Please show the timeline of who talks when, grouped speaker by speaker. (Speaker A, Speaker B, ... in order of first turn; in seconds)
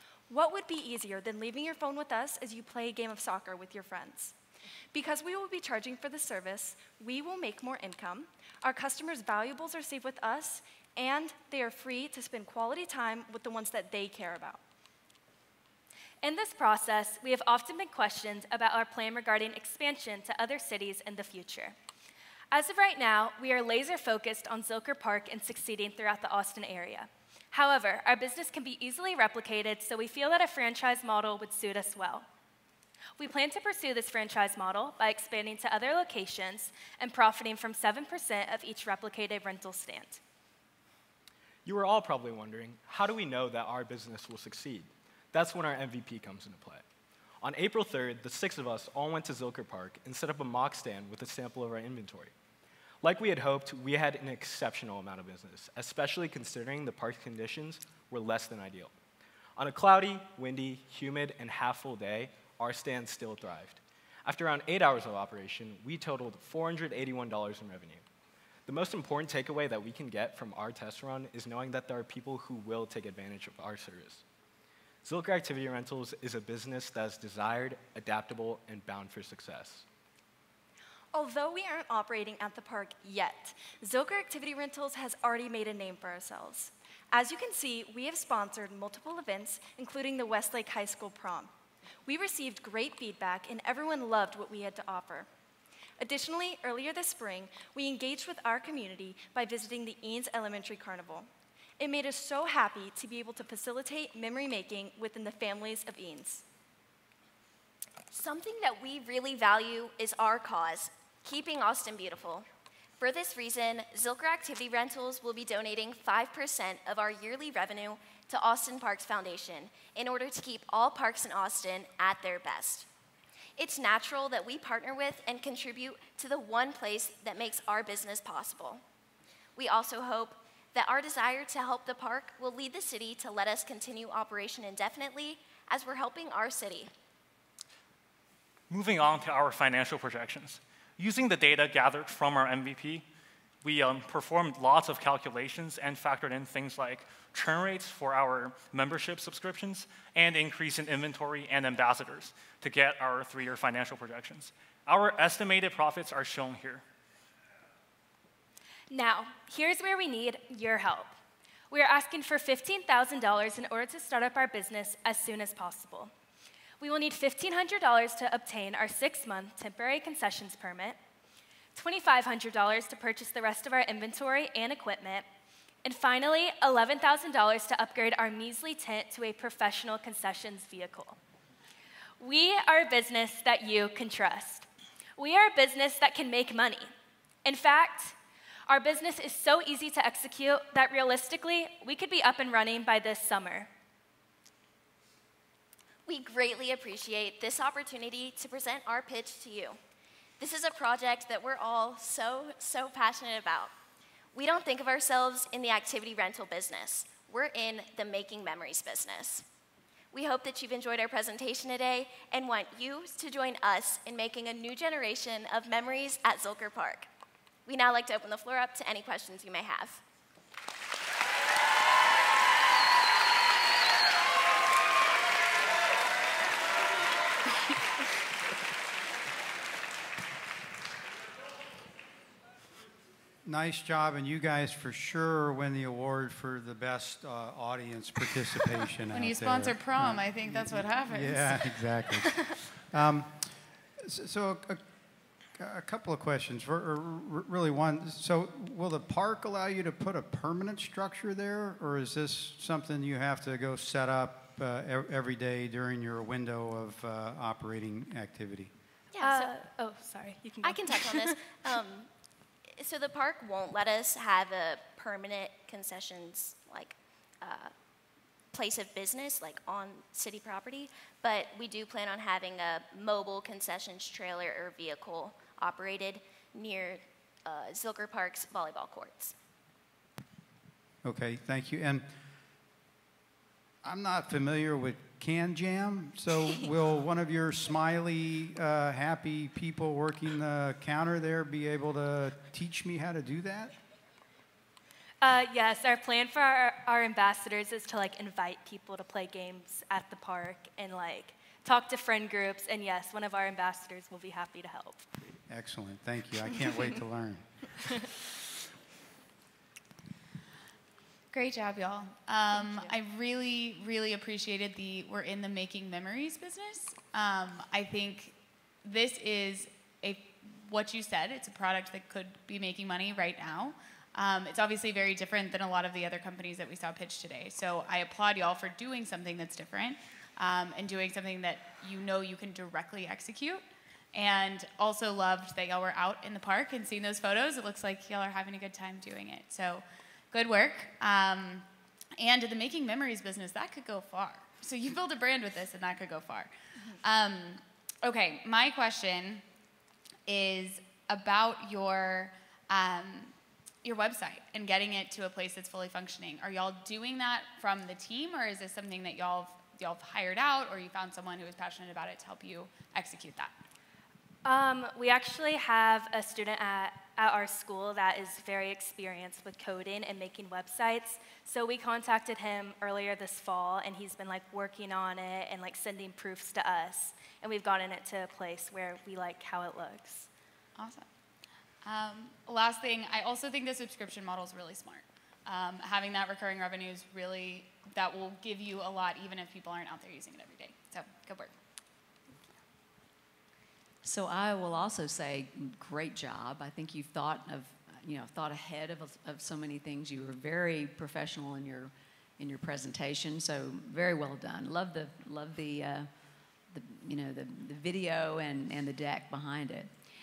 Speaker A: 0.3-4.3, 4.9-14.6, 81.1-91.5, 92.1-95.3, 96.0-101.2, 101.8-106.4
Speaker B: 16.2-21.8, 22.5-32.2, 33.2-40.2, 158.9-161.1, 161.7-166.1, 166.8-171.0, 171.7-175.2, 175.8-181.2, 182.2-186.9, 187.4-188.1, 188.7-193.7, 259.2-261.5, 295.2-305.0, 312.5-312.9, 364.4-380.3
Speaker C: 41.6-46.8, 47.4-52.3, 53.0-58.9, 59.5-68.0, 68.7-74.2, 75.0-79.8
Speaker D: 108.1-112.4, 113.0-122.8, 123.6-128.8, 129.6-136.9, 196.1-199.7, 200.4-203.7, 204.3-209.4, 210.1-217.1, 217.7-220.0, 259.1-259.5, 260.6-262.1, 262.8-266.9, 267.4-267.7, 268.5-279.3
Speaker E: 138.7-143.0, 143.6-156.8
Speaker F: 233.4-242.4, 242.9-243.5, 244.1-244.8, 245.6-258.7, 281.0-282.0, 283.8-293.7, 305.5-307.4
Speaker G: 239.1-242.1, 311.3-333.6, 334.1-341.6, 342.2-346.5, 347.0-349.4, 350.3-363.5, 380.8-381.1, 381.8-391.5
Speaker H: 394.0-406.1, 406.7-409.9